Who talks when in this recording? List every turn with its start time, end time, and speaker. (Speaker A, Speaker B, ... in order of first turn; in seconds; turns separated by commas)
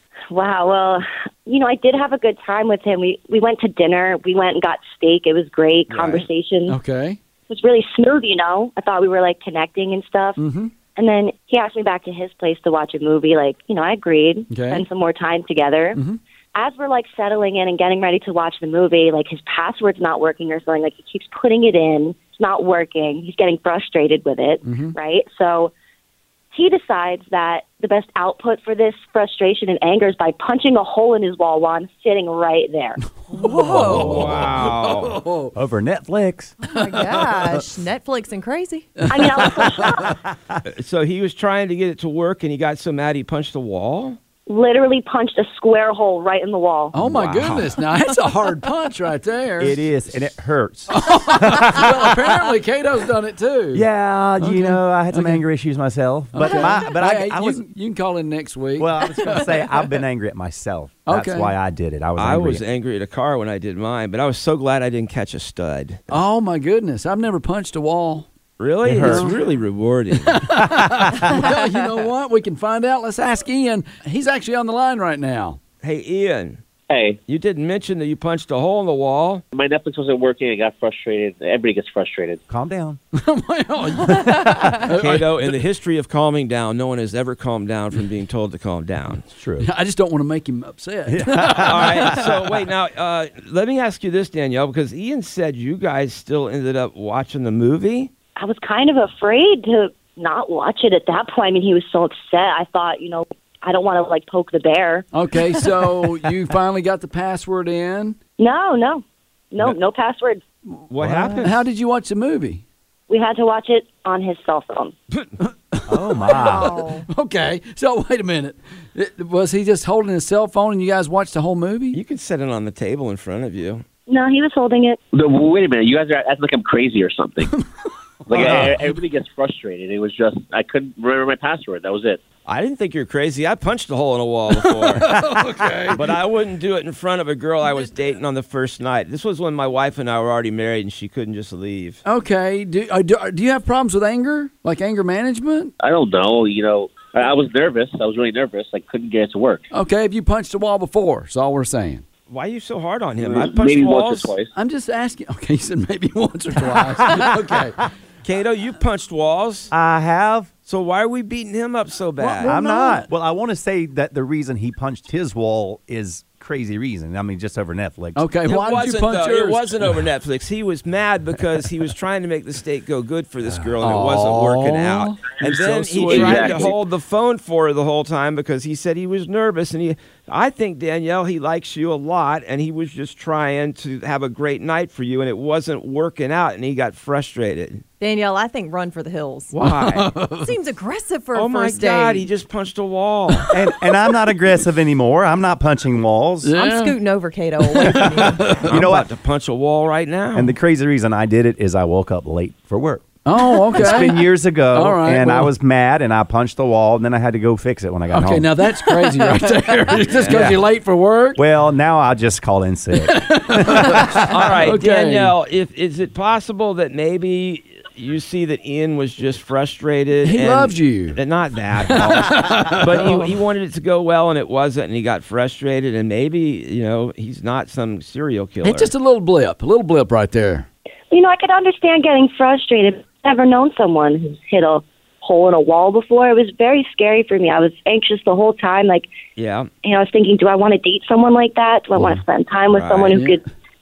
Speaker A: 0.3-6.8, Speaker B: 5.9-6.3, Speaker C: 6.7-7.2, Speaker A: 7.5-10.4, Speaker C: 10.4-10.7, Speaker A: 10.9-16.0, Speaker C: 14.5-14.9, Speaker C: 15.9-16.2, Speaker A: 16.6-25.7, Speaker C: 24.6-24.9, Speaker A: 26.5-33.0, Speaker C: 33.3-35.5, Speaker D: 33.3-34.1, Speaker E: 33.7-34.5, Speaker B: 33.9-35.2, Speaker E: 35.5-36.6, Speaker D: 36.6-38.9, Speaker C: 36.8-37.6, Speaker C: 39.0-40.1, Speaker A: 39.1-40.2, Speaker B: 40.8-44.2, Speaker A: 44.5-47.0, Speaker C: 46.9-49.9, Speaker B: 47.0-47.7, Speaker E: 49.6-52.5, Speaker C: 50.9-53.9, Speaker E: 53.7-57.6, Speaker C: 54.4-55.4, Speaker C: 56.3-59.7, Speaker D: 56.5-56.7, Speaker E: 58.8-62.6, Speaker C: 61.1-61.5, Speaker B: 62.2-66.0, Speaker C: 66.1-68.3, Speaker B: 68.6-70.4, Speaker E: 68.9-69.3, Speaker C: 69.0-69.4, Speaker C: 70.2-75.6, Speaker E: 70.6-71.3, Speaker B: 75.8-76.6, Speaker F: 76.9-77.2, Speaker B: 77.3-79.4, Speaker F: 79.5-82.4, Speaker E: 82.5-83.0, Speaker C: 83.1-85.6, Speaker B: 84.9-89.3, Speaker E: 89.3-89.7, Speaker C: 89.6-92.4, Speaker E: 91.1-92.3, Speaker B: 91.5-98.1, Speaker A: 98.4-105.7, Speaker C: 105.1-108.2, Speaker A: 108.4-110.4, Speaker B: 110.9-111.6, Speaker E: 111.0-111.5, Speaker C: 111.4-112.6, Speaker A: 113.1-114.9, Speaker C: 115.5-122.0, Speaker E: 115.9-116.8, Speaker D: 116.3-117.1, Speaker B: 121.9-123.8, Speaker A: 124.1-125.0, Speaker F: 125.1-127.6, Speaker C: 128.3-128.8, Speaker F: 128.3-132.2, Speaker E: 128.3-128.7, Speaker B: 132.5-135.2, Speaker C: 134.5-136.2, Speaker B: 135.9-142.0, Speaker C: 142.1-145.7, Speaker F: 145.8-149.7, Speaker C: 149.7-152.0, Speaker B: 152.3-154.3, Speaker F: 153.2-154.5, Speaker C: 154.5-157.8, Speaker B: 158.2-159.7, Speaker E: 159.7-160.5, Speaker B: 160.7-162.5, Speaker C: 162.2-163.1, Speaker E: 162.4-168.3, Speaker C: 168.2-170.1, Speaker B: 168.5-187.8, Speaker C: 173.8-176.8, Speaker F: 176.0-176.8, Speaker D: 188.0-189.5, Speaker B: 189.5-190.1, Speaker C: 189.6-190.5, Speaker D: 190.4-192.3, Speaker B: 191.3-193.5, Speaker E: 193.5-196.5, Speaker C: 196.4-197.0, Speaker D: 196.5-198.5, Speaker C: 197.6-198.8, Speaker E: 198.1-199.1, Speaker B: 198.6-200.6, Speaker E: 200.3-203.1, Speaker C: 203.2-205.5, Speaker E: 203.7-208.5, Speaker C: 208.1-211.4, Speaker D: 208.8-209.4, Speaker B: 210.1-210.6, Speaker E: 210.3-210.6, Speaker E: 211.4-214.3, Speaker C: 213.0-215.3, Speaker B: 214.2-228.9, Speaker C: 220.2-221.2, Speaker C: 221.8-223.4, Speaker C: 228.6-230.7, Speaker A: 231.1-239.1, Speaker B: 239.4-239.7, Speaker A: 239.8-243.5, Speaker C: 242.0-242.2, Speaker B: 242.7-243.2, Speaker C: 243.1-243.4